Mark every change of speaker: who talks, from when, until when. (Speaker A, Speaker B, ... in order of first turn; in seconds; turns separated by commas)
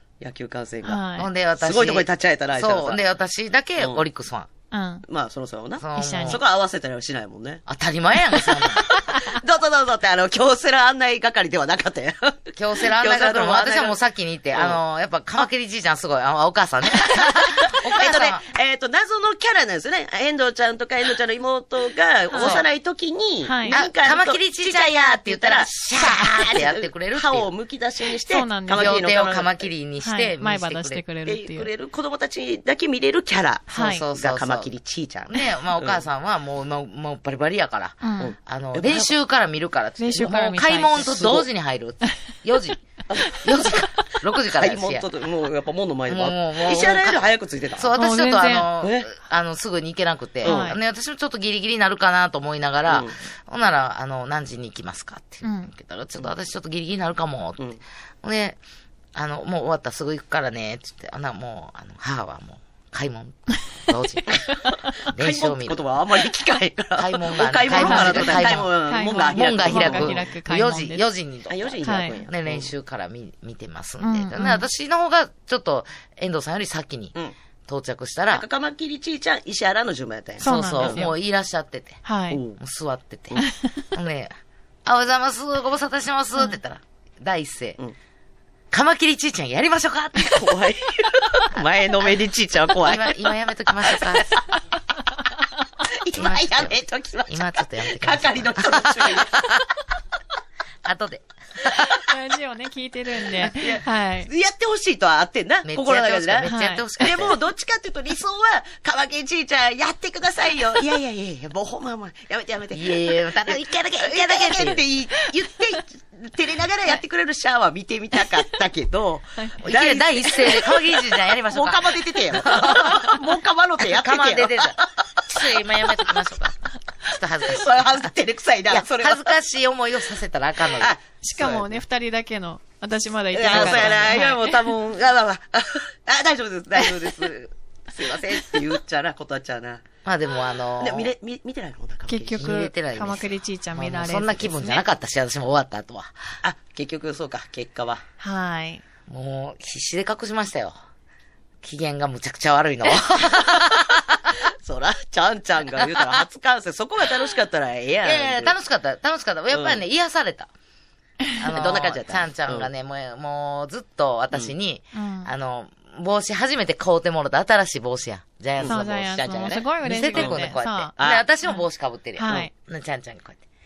Speaker A: 0.2-1.0, Speaker B: 0.8-1.3, Speaker C: 1.2-4.5, Speaker A: 1.6-3.0, Speaker A: 3.8-4.0, Speaker B: 4.7-5.0, Speaker A: 5.1-7.6, Speaker C: 5.8-6.4, Speaker B: 6.0-6.4, Speaker C: 7.7-8.9, Speaker B: 8.9-9.3, Speaker A: 9.1-14.0, Speaker C: 12.5-18.4, Speaker A: 14.5-14.8, Speaker A: 17.0-29.7, Speaker B: 22.3-22.6, Speaker C: 22.3-22.6, Speaker B: 23.4-23.8, Speaker C: 23.7-27.5, Speaker B: 28.2-29.1, Speaker C: 28.8-31.0, Speaker B: 30.0-31.7, Speaker A: 31.2-36.0, Speaker B: 33.7-34.0, Speaker C: 33.7-34.7, Speaker C: 35.3-42.8, Speaker B: 38.0-38.3, Speaker A: 38.2-39.1, Speaker B: 40.0-41.1, Speaker A: 40.9-41.5, Speaker A: 43.1-43.8, Speaker C: 43.4-45.0, Speaker A: 44.5-47.9, Speaker C: 46.1-57.6, Speaker B: 48.0-48.7, Speaker A: 48.8-49.1, Speaker A: 50.4-50.7, Speaker B: 50.4-50.8, Speaker A: 52.9-53.1, Speaker B: 55.4-55.7, Speaker C: 58.2-58.6, Speaker C: 59.1-64.4, Speaker A: 65.0-70.3, Speaker C: 65.1-65.8, Speaker C: 67.0-77.1, Speaker B: 67.7-71.0, Speaker A: 71.5-72.7, Speaker B: 71.8-72.2, Speaker B: 74.0-74.7, Speaker C: 77.7-78.4, Speaker A: 78.3-81.0, Speaker B: 80.4-81.1, Speaker C: 80.4-82.0, Speaker B: 82.0-82.4, Speaker A: 82.3-82.6, Speaker C: 82.6-83.4, Speaker C: 83.9-84.3, Speaker C: 84.8-87.8, Speaker C: 88.7-90.5, Speaker A: 90.3-93.2, Speaker C: 92.8-94.2, Speaker A: 93.8-94.3, Speaker A: 95.9-99.5, Speaker C: 96.1-99.6, Speaker C: 100.8-101.9, Speaker B: 101.9-104.3, Speaker A: 103.4-125.5, Speaker C: 105.7-107.4, Speaker B: 106.5-106.8, Speaker C: 112.7-114.8, Speaker C: 119.6-123.2, Speaker C: 123.8-124.8, Speaker C: 125.3-128.1, Speaker A: 127.4-129.3, Speaker C: 128.7-130.9, Speaker A: 130.8-131.8, Speaker B: 131.2-134.6, Speaker A: 133.3-139.8, Speaker C: 133.5-134.2, Speaker C: 140.0-141.1, Speaker A: 140.8-142.5, Speaker B: 142.1-144.8, Speaker C: 142.4-146.2, Speaker A: 146.4-148.0, Speaker B: 148.2-148.8, Speaker C: 149.1-150.7, Speaker C: 151.6-154.2, Speaker A: 153.5-153.8, Speaker A: 154.6-158.5, Speaker C: 155.8-156.2, Speaker C: 158.0-160.5, Speaker A: 159.5-159.8, Speaker C: 161.4-168.9, Speaker A: 161.5-162.7, Speaker B: 164.9-165.3, Speaker A: 168.6-170.4, Speaker B: 168.6-170.9, Speaker C: 169.8-173.4, Speaker A: 171.0-171.2, Speaker B: 172.2-172.5